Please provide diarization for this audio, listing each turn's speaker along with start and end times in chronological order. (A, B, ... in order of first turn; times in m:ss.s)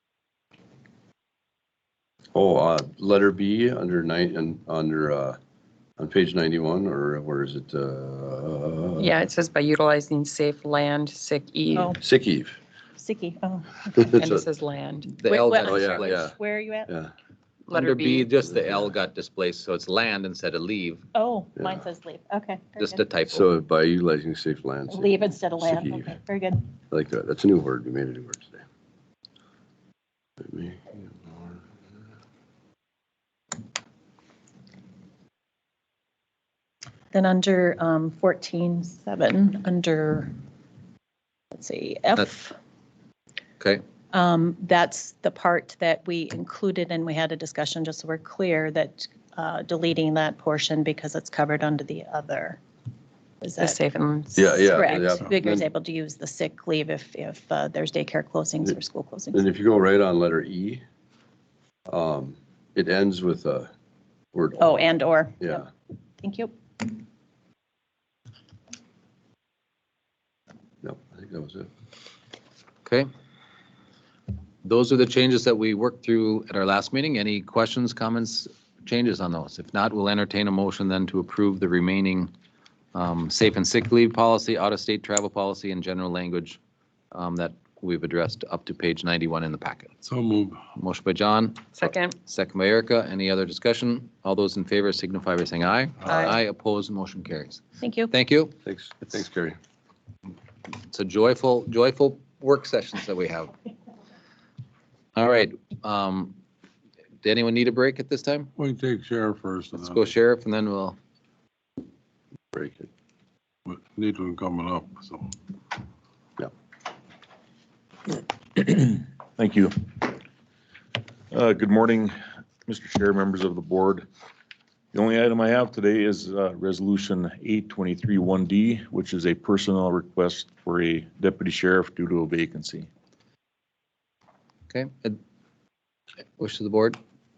0:02.3-0:05.4 A
0:06.0-0:09.2 A
0:09.0-0:11.9 B
0:12.0-0:12.6 A
0:13.0-0:14.1 C
0:13.9-0:14.4 A
0:14.2-0:15.1 B
0:15.2-0:16.3 D
0:15.2-0:16.9 C
0:15.6-0:16.3 A
0:17.7-0:18.3 B
0:17.7-0:21.0 D
0:21.1-0:23.0 C
0:21.6-0:21.8 A
0:22.8-0:23.5 D
0:23.3-0:26.1 A
0:24.9-0:26.7 C
0:26.9-0:28.6 A
0:30.4-0:31.6 A
0:37.1-0:40.3 C
0:41.5-0:42.6 C
0:44.1-0:52.6 C
0:53.4-0:53.8 C
0:53.6-0:54.5 B
0:54.3-0:55.6 A
0:54.5-0:59.4 C
0:59.3-1:00.8 A
1:01.9-1:03.7 A
1:04.3-1:04.9 A
1:04.6-1:05.6 C
1:05.4-1:05.7 A
1:06.2-1:06.5 C
1:10.8-1:11.7 A
1:14.6-1:22.3 D
1:22.9-1:26.6 D
1:27.1-1:29.9 D
1:30.0-1:30.6 E
1:30.8-1:38.6 D
1:31.7-1:32.2 B
1:36.1-1:36.4 B
1:37.8-1:38.1 C
1:38.6-1:39.6 A
1:40.9-1:43.5 D
1:45.2-1:46.4 D
1:47.2-1:48.5 D
1:48.6-1:50.1 E
1:49.8-1:51.0 D
1:52.5-1:52.9 A
1:53.6-1:55.3 E
1:58.5-2:00.1 F
2:01.3-2:02.1 F
2:02.6-2:04.0 F
2:04.9-2:12.9 F
2:14.7-2:15.2 D
2:16.4-2:17.0 D